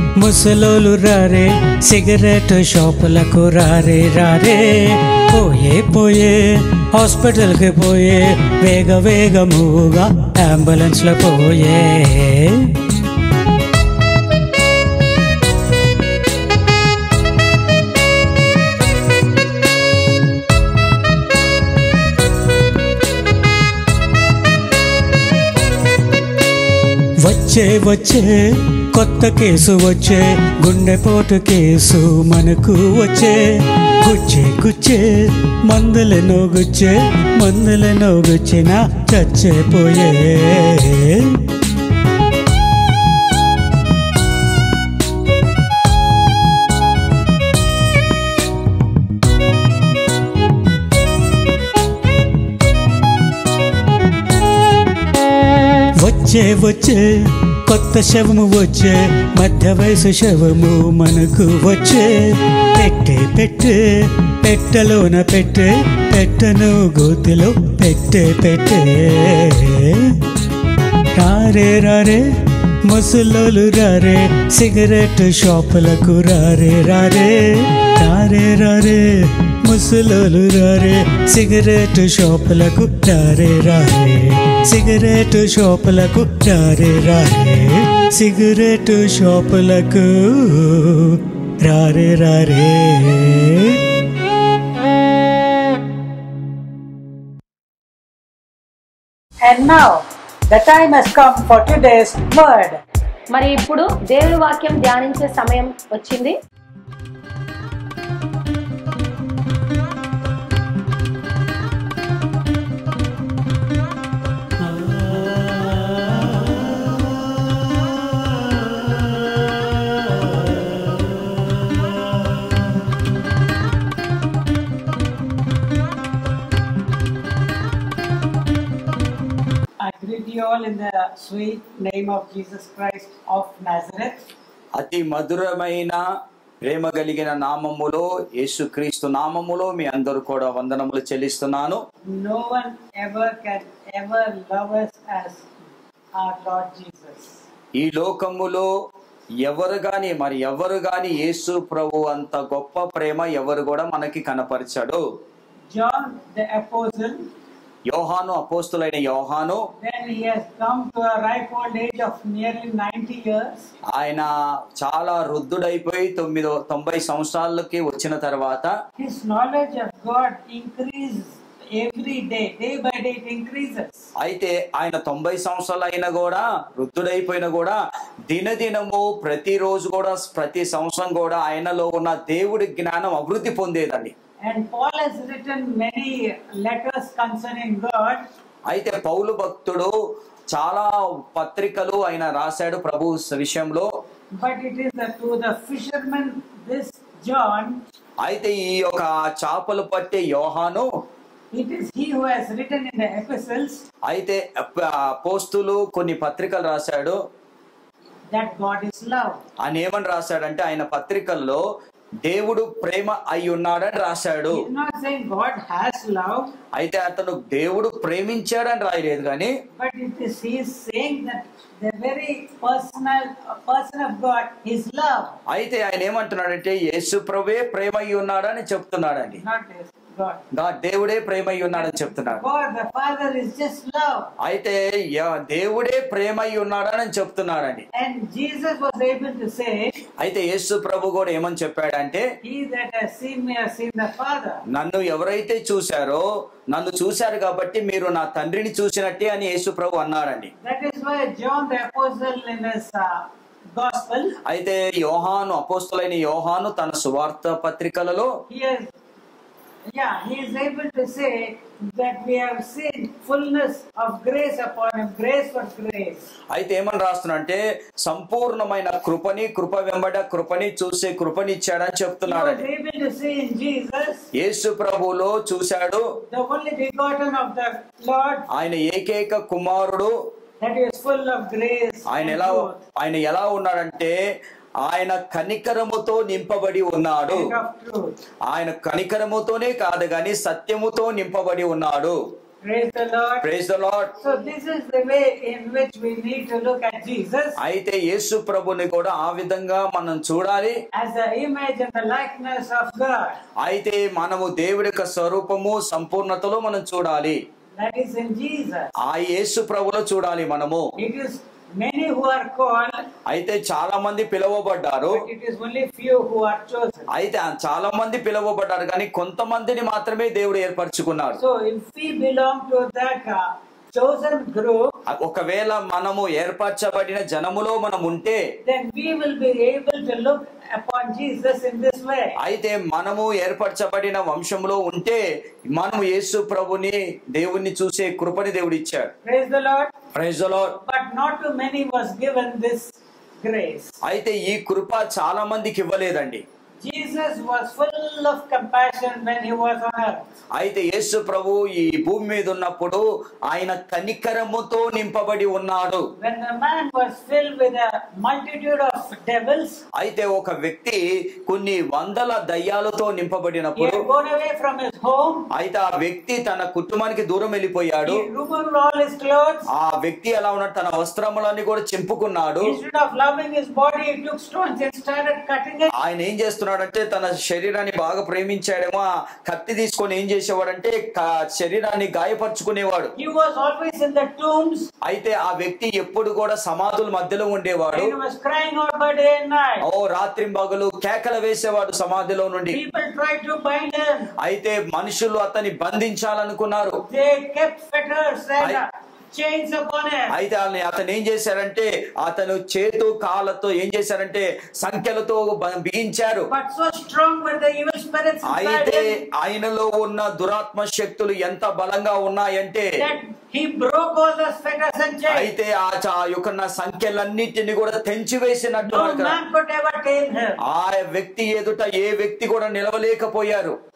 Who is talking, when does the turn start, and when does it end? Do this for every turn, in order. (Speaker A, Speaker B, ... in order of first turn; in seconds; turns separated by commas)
Speaker A: 0.1-12.8, Speaker A: 27.2-41.4, Speaker A: 56.0-70.2, Speaker A: 71.2-72.3, Speaker A: 72.8-93.8, Speaker B: 99.4-102.8, Speaker C: 103.3-106.4, Speaker B: 129.8-134.3, Speaker D: 134.8-136.0, Speaker D: 136.6-141.8, Speaker B: 142.1-145.5, Speaker B: 146.2-147.4, Speaker D: 147.8-148.7, Speaker D: 149.4-155.0, Speaker B: 155.7-157.2, Speaker D: 157.9-159.6, Speaker B: 159.8-163.7, Speaker D: 163.9-168.7, Speaker B: 169.0-174.0, Speaker D: 174.2-184.1, Speaker B: 184.4-188.2, Speaker D: 188.7-189.9, Speaker D: 190.5-193.9, Speaker B: 194.3-197.8, Speaker D: 198.2-200.9, Speaker B: 201.5-203.8, Speaker D: 204.1-207.2, Speaker B: 208.3-209.4, Speaker D: 209.6-211.6, Speaker D: 212.2-214.7, Speaker B: 214.5-216.5, Speaker D: 216.7-219.5, Speaker B: 219.7-225.3, Speaker D: 225.5-229.4, Speaker B: 229.4-230.4, Speaker D: 230.5-232.4, Speaker B: 231.7-234.3, Speaker D: 234.4-237.8, Speaker B: 237.9-239.9, Speaker D: 240.2-242.3, Speaker B: 242.4-244.6, Speaker D: 244.7-250.5, Speaker B: 250.6-254.3, Speaker D: 254.4-258.3, Speaker B: 258.5-258.9, Speaker B: 259.9-266.2, Speaker D: 266.5-272.6, Speaker B: 272.2-274.3, Speaker D: 274.3-276.0, Speaker B: 276.3-278.4, Speaker D: 278.5-280.1, Speaker B: 280.6-282.8, Speaker D: 282.1-284.1, Speaker D: 284.8-287.5, Speaker B: 287.3-288.1, Speaker D: 288.5-292.2, Speaker B: 292.6-293.4, Speaker D: 293.4-294.1, Speaker B: 294.2-297.6, Speaker D: 297.6-300.8, Speaker B: 300.9-303.4, Speaker D: 303.6-307.4, Speaker B: 307.8-308.9, Speaker D: 309.0-310.9, Speaker B: 311.0-313.0, Speaker D: 313.3-315.2, Speaker B: 315.1-317.1, Speaker D: 317.1-321.4, Speaker B: 321.4-324.9, Speaker D: 325.1-328.4, Speaker B: 328.6-332.4, Speaker D: 332.4-335.2, Speaker D: 335.7-339.1, Speaker B: 339.2-339.9, Speaker D: 340.1-340.8, Speaker B: 340.8-343.9, Speaker D: 344.0-346.4, Speaker B: 346.8-350.2, Speaker D: 350.6-356.0, Speaker B: 356.2-359.8, Speaker D: 359.9-364.0, Speaker B: 363.7-365.5, Speaker D: 365.5-368.3, Speaker B: 368.0-369.7, Speaker D: 369.7-372.8, Speaker B: 372.6-375.9, Speaker D: 375.9-383.1, Speaker B: 383.2-384.9, Speaker D: 385.0-388.1, Speaker B: 387.9-389.8, Speaker D: 389.8-392.8, Speaker B: 392.7-394.3, Speaker D: 394.4-397.0, Speaker B: 397.0-400.3, Speaker D: 400.3-406.5, Speaker B: 406.5-409.2, Speaker D: 408.4-413.0, Speaker B: 413.0-415.5, Speaker D: 415.3-419.4, Speaker B: 418.8-420.6, Speaker D: 420.6-423.8